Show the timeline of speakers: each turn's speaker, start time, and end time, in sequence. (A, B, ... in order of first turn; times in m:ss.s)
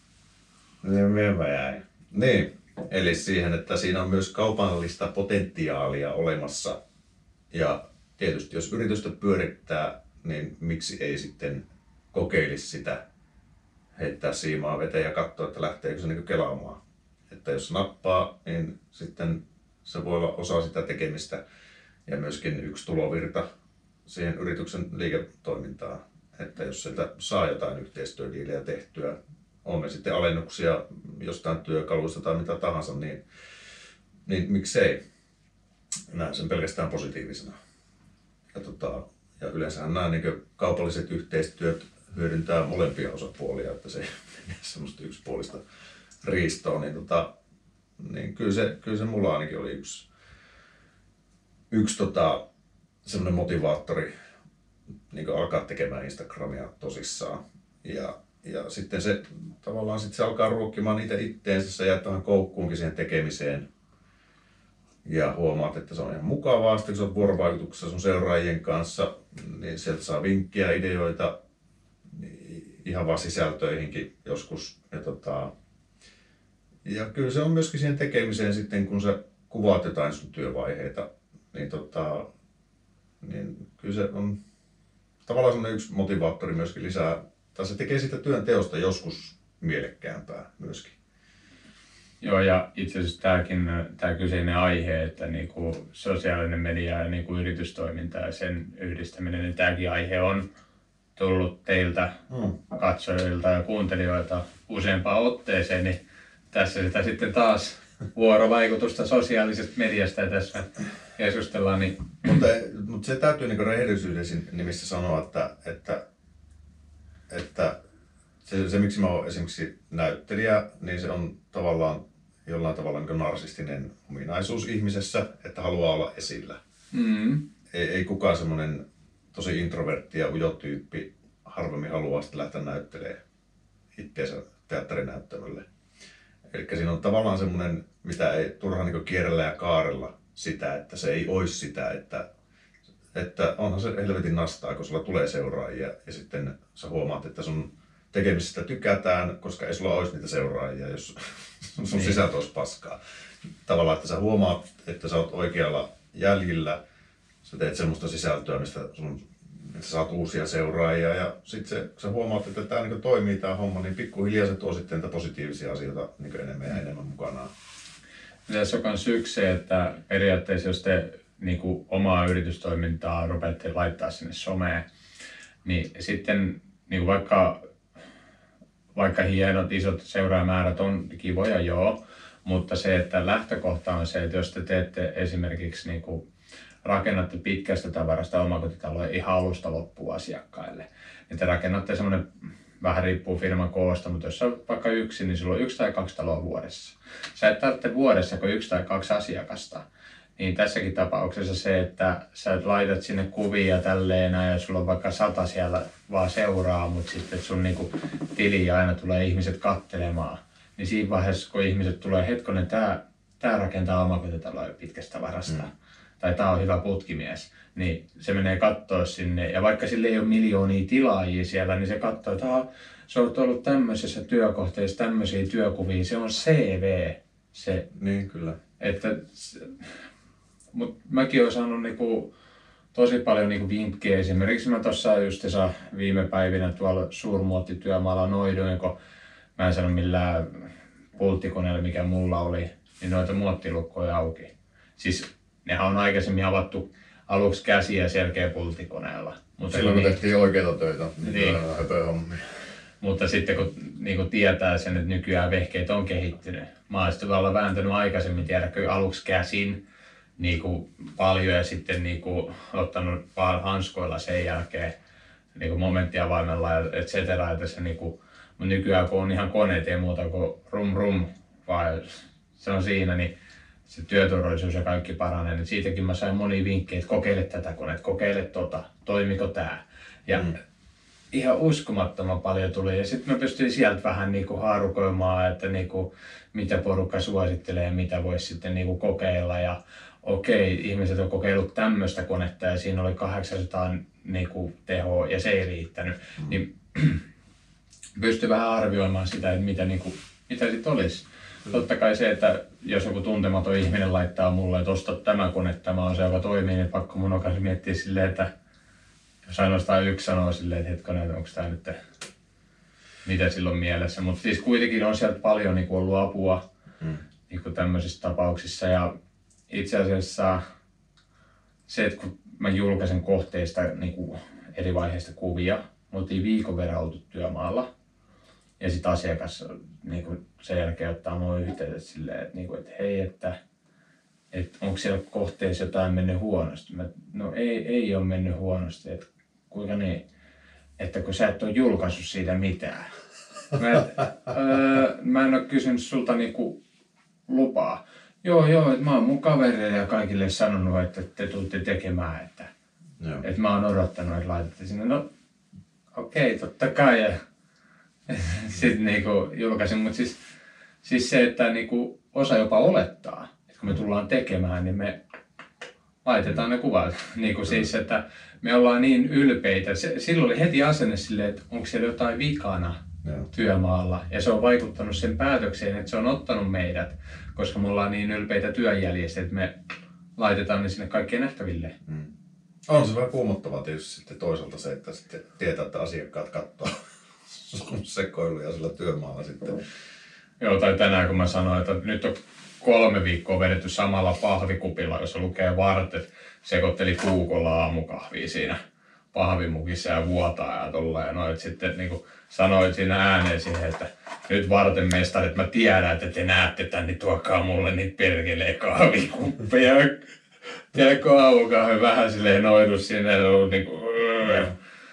0:00.8-0:06.8 A
0:07.5-0:13.0 A
0:14.0-0:21.4 A
0:22.1-0:23.4 A
0:24.1-0:33.2 A
0:34.3-0:35.0 A
0:36.1-0:37.5 A
0:38.5-0:45.6 A
0:46.2-0:47.3 A
0:48.0-0:50.1 A
0:51.7-0:52.4 A
0:53.0-0:54.1 A
0:55.1-1:03.7 A
1:05.0-1:11.3 A
1:12.1-1:15.5 A
1:16.8-1:22.3 A
1:23.2-1:24.4 A
1:25.3-1:31.0 A
1:32.2-1:40.4 B
1:41.2-1:42.2 B
1:42.3-1:42.6 A
1:42.7-1:46.0 B
1:46.5-1:52.2 B
1:52.2-1:56.0 A
1:57.3-1:57.8 A
1:58.4-2:06.6 A
2:06.9-2:07.4 B
2:07.7-2:13.2 A
2:14.0-2:15.6 A
2:16.5-2:22.3 A
2:23.1-2:33.0 A
2:31.9-2:32.2 B
2:33.7-2:36.8 A
2:37.4-2:47.5 A
2:48.5-2:54.8 B
2:55.6-2:57.6 B
2:59.0-3:06.2 B
3:06.8-3:12.2 B
3:12.8-3:19.8 B
3:20.4-3:47.9 B
3:47.9-3:48.6 A
3:48.8-3:49.9 B
3:50.7-3:52.3 B
3:52.9-3:59.0 B
3:59.6-4:10.2 B
4:09.7-4:12.6 A
4:11.2-4:11.6 B
4:13.0-4:19.8 B
4:20.4-4:24.9 B
4:25.6-4:33.3 B
4:33.9-4:40.6 B
4:41.3-4:57.2 B
4:58.2-5:08.5 B
5:09.5-5:12.0 B
5:13.2-5:16.6 B
5:17.5-5:19.1 B
5:19.7-5:20.6 B
5:21.9-5:27.9 B
5:28.8-5:33.6 B
5:34.5-5:40.2 B
5:41.0-5:43.1 B
5:43.7-5:46.8 B
5:47.5-5:52.7 B
5:53.4-5:55.2 B
5:56.1-5:57.4 B
5:58.3-6:00.4 B
6:01.0-6:05.2 B
6:06.2-6:13.0 B
6:13.2-6:13.5 A
6:13.5-6:21.9 B
6:22.1-6:22.3 A
6:22.9-6:27.0 A
6:27.5-6:29.8 A
6:30.6-6:38.8 B
6:39.3-6:50.3 B
6:50.8-6:54.7 B